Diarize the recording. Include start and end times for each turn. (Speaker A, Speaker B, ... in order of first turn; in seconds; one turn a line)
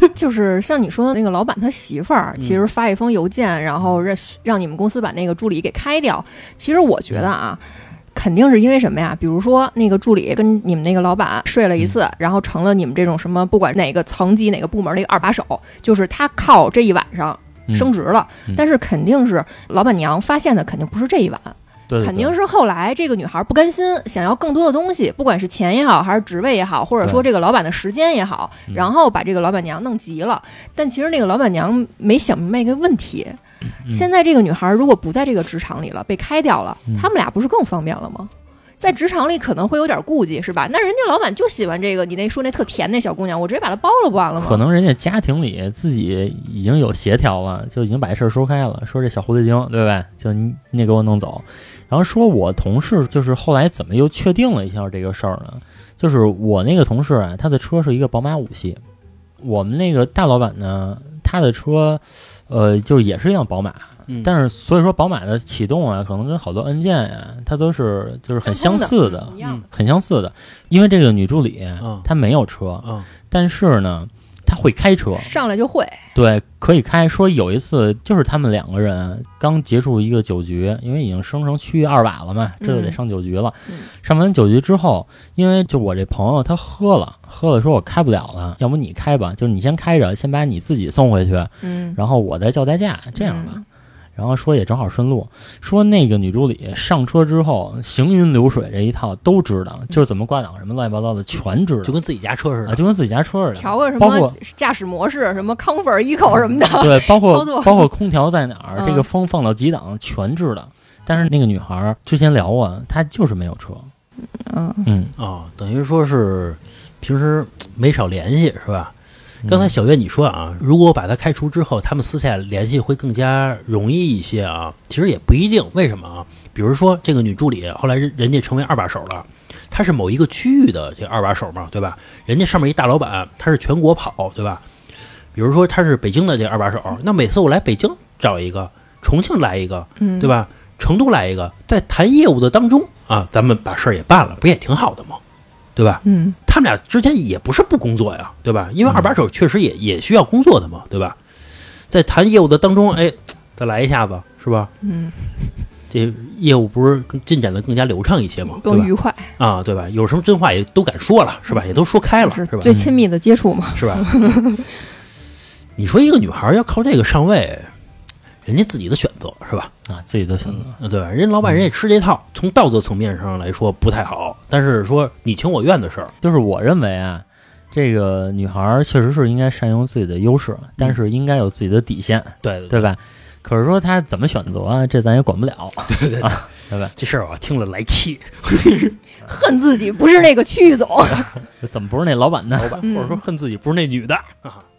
Speaker A: 0.1-44.6
Speaker B: 21.9-22.3
Speaker B: 44.4-58.8
Speaker B: 59.4-75.3
Speaker A: 68.4-69.7
Speaker C: 71.8-72.1
Speaker C: 72.8-73.1
Speaker A: 75.2-76.0
Speaker B: 76.1-93.6
Speaker A: 82.6-83.0
Speaker A: 91.6-92.0
Speaker A: 93.2-93.6
Speaker B: 94.2-102.0
Speaker C: 101.8-102.8
Speaker B: 102.7-104.3
Speaker A: 103.5-107.9
Speaker B: 106.8-113.9
Speaker A: 108.8-109.0
Speaker A: 114.3-114.9
Speaker B: 114.8-115.1
Speaker C: 115.2-118.9
Speaker B: 119.4-119.7
Speaker C: 119.5-134.6
Speaker C: 135.3-145.2
Speaker A: 140.0-140.3
Speaker C: 145.8-151.2
Speaker A: 146.0-146.4
Speaker C: 151.9-154.7
Speaker A: 154.8-155.5
Speaker C: 155.9-162.7
Speaker A: 158.5-159.3
Speaker A: 162.2-164.7
Speaker C: 163.7-164.0
Speaker C: 165.8-167.7
Speaker C: 168.4-169.7
Speaker B: 169.8-170.7
Speaker C: 170.8-176.1
Speaker B: 176.2-186.9
Speaker C: 182.4-182.9
Speaker C: 185.9-188.9
Speaker A: 189.2-191.3
Speaker B: 191.6-192.8
Speaker C: 192.6-194.7
Speaker A: 192.8-193.2